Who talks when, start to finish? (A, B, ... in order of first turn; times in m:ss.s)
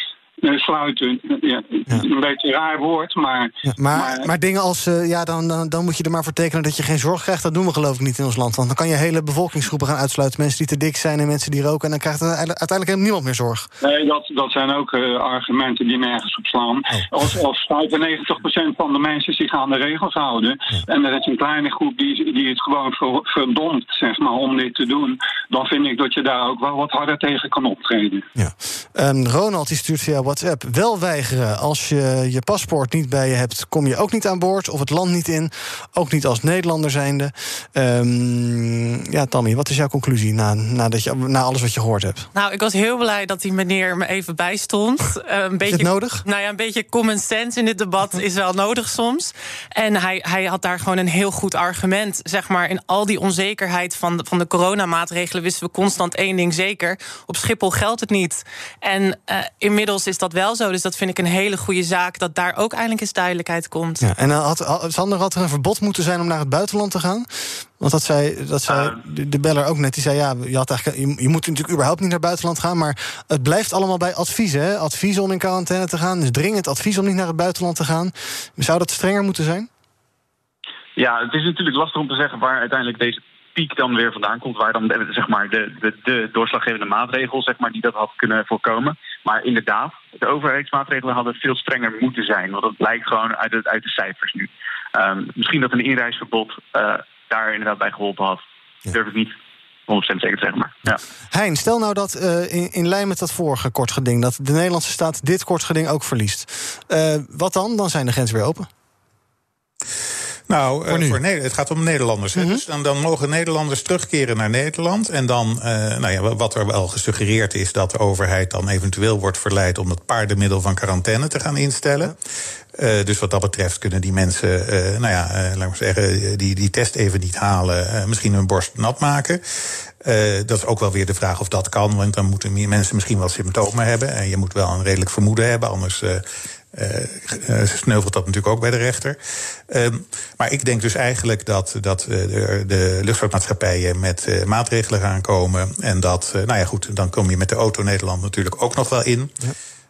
0:00.4-0:04.3 A
0:03.7-0:13.7 B
0:13.8-0:28.3 A
0:28.4-0:42.3 B
0:42.3-1:04.1 C
0:45.7-0:46.2 B
1:04.0-1:19.7 B
1:08.7-1:09.0 D
1:21.0-1:39.3 D
1:39.9-1:41.0 D
1:41.3-1:48.7 B
1:50.5-2:02.1 E
1:50.9-1:51.2 B
1:52.3-1:52.6 B
2:02.7-2:09.4 E
2:10.0-2:19.2 E
2:19.7-2:29.3 E